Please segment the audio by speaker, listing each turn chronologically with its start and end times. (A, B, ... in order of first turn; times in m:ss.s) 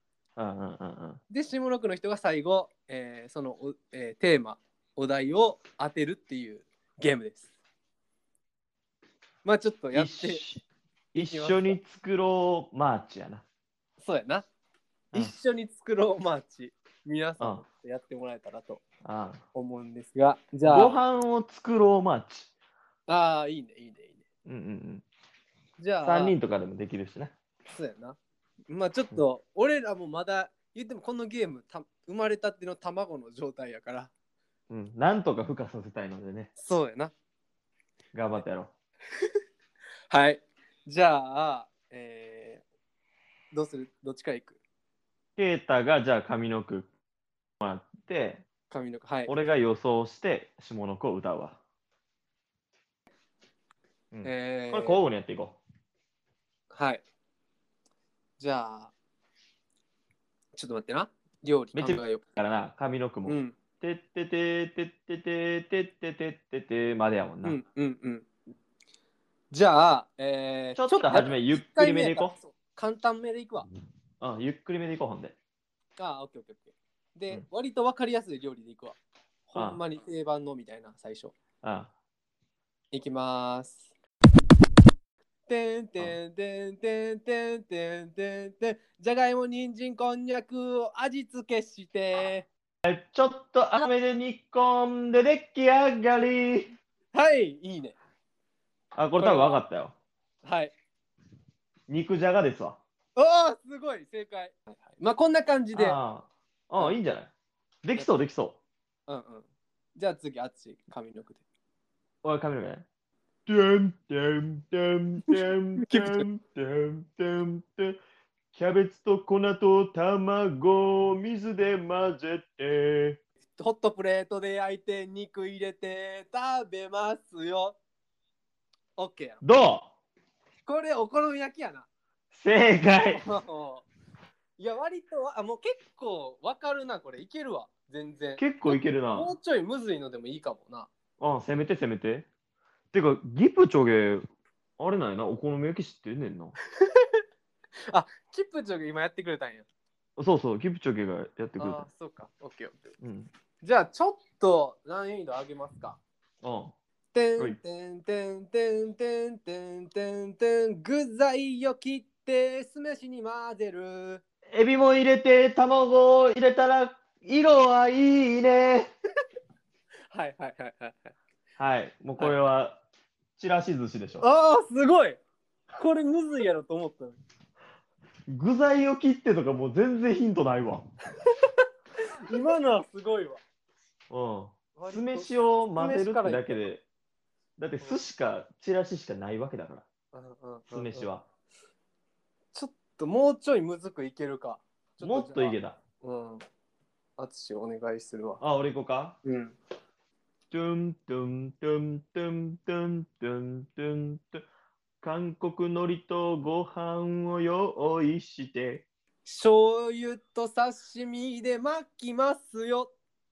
0:00.4-0:01.2 A
0:01.3-0:07.5 B
0:09.4-0:10.4 B
0:09.9-0:13.4 A
0:11.2-0:11.8 B
0:14.0-0:14.5 B
0:15.1-0:18.8 B
0:17.4-0:17.6 A
0:19.0-0:19.4 A
0:19.5-0:21.0 B
0:20.6-0:22.5 A
0:23.1-0:24.2 B
0:24.4-0:25.0 A
0:25.8-0:26.4 B
0:26.0-0:27.4 A
0:27.7-0:28.2 B
0:28.7-0:34.1 B
0:34.7-0:36.5 A
0:36.6-0:37.1 B
0:38.1-0:38.7 A
0:40.1-0:42.6 B
0:43.5-0:44.6 B
0:45.4-0:46.9 A
0:47.6-0:48.4 A
0:48.7-0:49.3 B
0:49.3-0:51.6 A
0:54.1-0:55.6 A
0:54.2-0:55.0 B
0:56.7-0:57.0 B
0:58.4-0:58.9 B
1:00.5-1:02.2 B
1:01.7-1:07.6 A
1:03.3-1:03.6 B
1:07.4-1:08.3 B
1:09.5-1:13.7 B
1:10.8-1:12.4 A
1:14.2-1:15.4 A
1:16.0-1:21.3 B
1:19.6-1:19.8 A
1:21.6-1:21.9 A
1:22.9-1:23.8 B
1:25.5-1:32.5 B
1:32.8-1:36.8 A
1:37.1-1:38.0 B
1:39.0-1:39.9 A
1:39.2-1:39.6 B
1:40.4-1:40.7 B
1:41.9-1:42.8 A
1:43.2-1:46.0 B
1:45.7-1:47.3 A
1:47.8-1:48.6 A
1:49.1-1:51.4 B
1:52.2-1:52.9 A
1:53.5-1:58.0 A
1:55.9-1:56.2 B
1:58.5-2:03.2 A
2:03.6-2:07.8 B
2:09.0-2:09.4 B
2:09.4-2:09.9 A
2:10.6-2:11.9 B
2:12.3-2:13.2 A
2:13.1-2:13.9 B
2:14.6-2:20.9 B
2:18.4-2:19.4 A
2:21.2-2:22.3 A
2:22.9-2:24.3 A
2:24.8-2:26.6 A
2:27.9-2:29.7 B
2:30.2-2:31.9 A
2:31.6-2:32.8 B
2:33.0-2:33.3 A
2:33.6-2:36.0 B
2:36.4-2:36.7 A
2:37.1-2:44.2 B
2:44.5-2:48.9 A
2:50.1-2:51.2 B
2:51.6-2:52.8 A
2:53.4-2:54.2 A
2:54.2-2:55.2 B
2:55.8-2:57.2 B
2:58.3-3:00.8 A
3:02.3-3:03.4 B
3:04.1-3:06.8 A
3:04.8-3:06.7 B
3:07.6-3:09.8 A
3:10.1-3:11.1 B
3:10.7-3:11.2 A
3:12.5-3:16.4 B
3:15.0-3:15.8 A
3:17.2-3:18.4 B
3:18.4-3:19.2 A
3:19.2-3:19.6 B
3:20.5-3:24.4 A
3:25.0-3:28.9 A
3:29.2-3:32.9 B